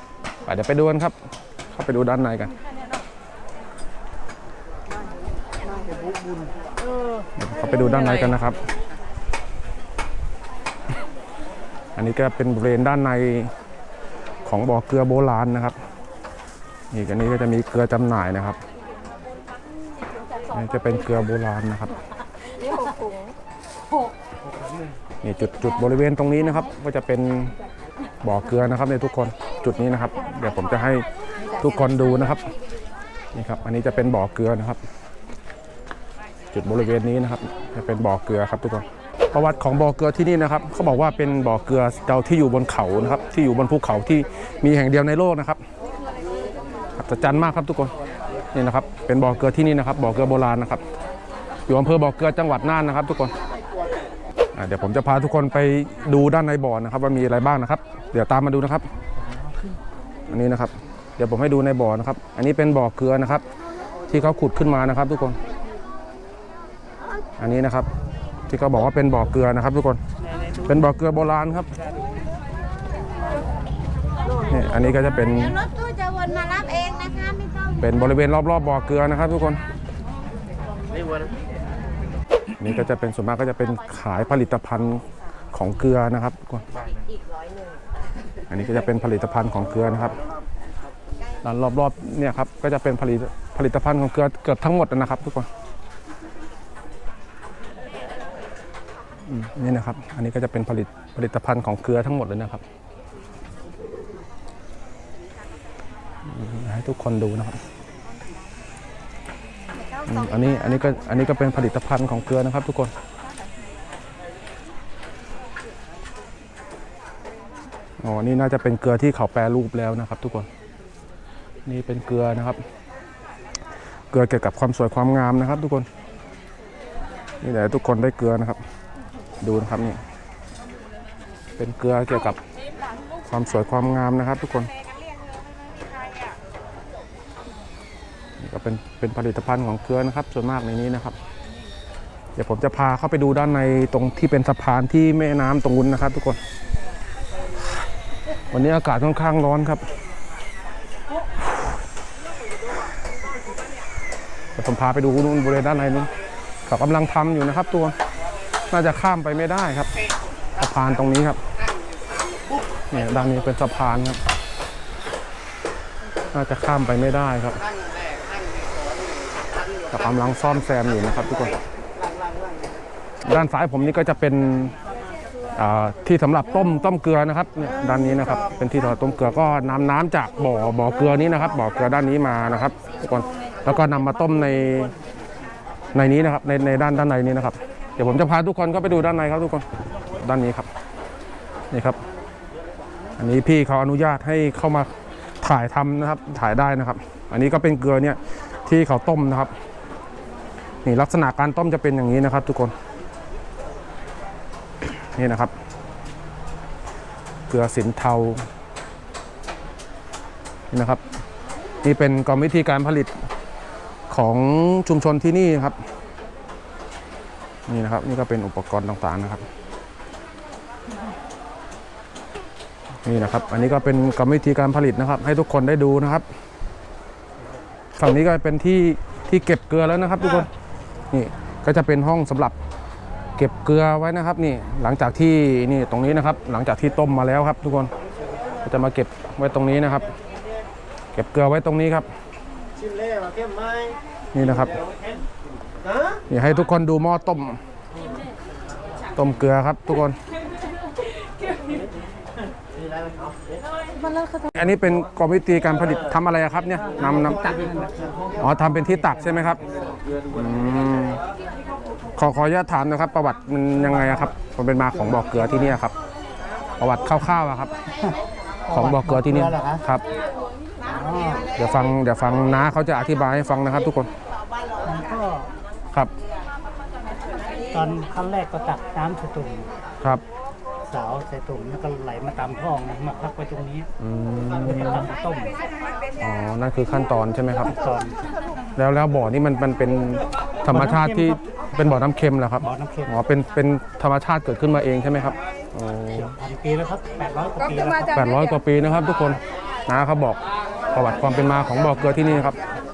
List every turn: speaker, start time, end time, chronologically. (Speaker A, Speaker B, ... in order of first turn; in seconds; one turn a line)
Speaker A: 0.5-1.1
Speaker A: 1.7-2.5
Speaker A: 7.4-8.6
Speaker A: 12.0-13.5
Speaker A: 14.4-15.8
Speaker A: 16.9-18.6
Speaker A: 20.5-21.9
Speaker A: 25.2-27.6
Speaker A: 28.2-31.1
Speaker A: 31.6-32.4
Speaker A: 33.3-34.8
Speaker A: 36.5-45.6
Speaker A: 47.0-47.9
Speaker A: 48.5-50.8
Speaker A: 51.7-53.3
Speaker A: 54.6-58.9
Speaker A: 60.3-63.4
Speaker A: 64.1-65.4
Speaker A: 67.4-67.9
Speaker A: 68.5-70.0
Speaker A: 70.7-71.7
Speaker A: 74.5-75.6
Speaker B: 75.9-77.5
Speaker A: 77.8-79.6
Speaker A: 82.6-86.7
Speaker A: 88.5-90.2
Speaker A: 91.4-95.5
Speaker A: 99.3-102.6
Speaker A: 106.2-107.6
Speaker A: 110.1-112.9
Speaker A: 118.0-120.5
Speaker A: 121.7-122.6
Speaker A: 124.1-125.9
Speaker A: 127.4-128.6
Speaker A: 129.4-130.0
Speaker A: 131.6-132.4
Speaker A: 133.2-134.7
Speaker A: 138.4-141.2
Speaker A: 142.4-146.4
Speaker A: 148.5-149.9
Speaker A: 154.6-156.1
Speaker A: 156.7-157.9
Speaker A: 158.7-159.9
Speaker A: 160.6-161.4
Speaker A: 162.9-164.2
Speaker A: 166.3-167.6
Speaker A: 169.9-171.6
Speaker A: 173.2-174.8
Speaker A: 175.6-184.9
Speaker A: 185.9-190.7
Speaker A: 191.7-192.0
Speaker A: 193.2-194.9
Speaker A: 195.4-199.5
Speaker A: 200.8-202.7
Speaker A: 204.9-205.5
Speaker A: 207.5-208.4
Speaker A: 210.7-211.0
Speaker A: 211.8-213.1
Speaker A: 214.1-215.8
Speaker A: 217.7-219.4
Speaker A: 223.1-226.2
Speaker A: 228.0-230.5
Speaker A: 231.1-232.6
Speaker A: 233.4-237.9
Speaker A: 238.6-240.1
Speaker A: 241.1-242.1
Speaker A: 244.3-244.8
Speaker A: 246.3-247.6
Speaker A: 249.2-250.2
Speaker B: 254.1-254.4
Speaker A: 254.5-257.5
Speaker A: 258.4-259.6
Speaker A: 260.3-261.2
Speaker A: 262.2-265.9
Speaker A: 266.8-267.7
Speaker A: 268.7-270.0
Speaker C: 268.7-269.8
Speaker C: 270.9-271.5
Speaker A: 271.6-274.1
Speaker C: 274.8-275.5
Speaker C: 277.7-279.7
Speaker C: 280.9-283.9
Speaker A: 284.0-285.1
Speaker C: 284.7-285.6
Speaker A: 286.2-287.7
Speaker C: 287.8-288.2
Speaker A: 288.8-296.3
Speaker C: 290.7-291.4
Speaker C: 292.6-293.1
Speaker C: 296.1-298.2
Speaker A: 298.1-300.4
Speaker A: 300.9-302.6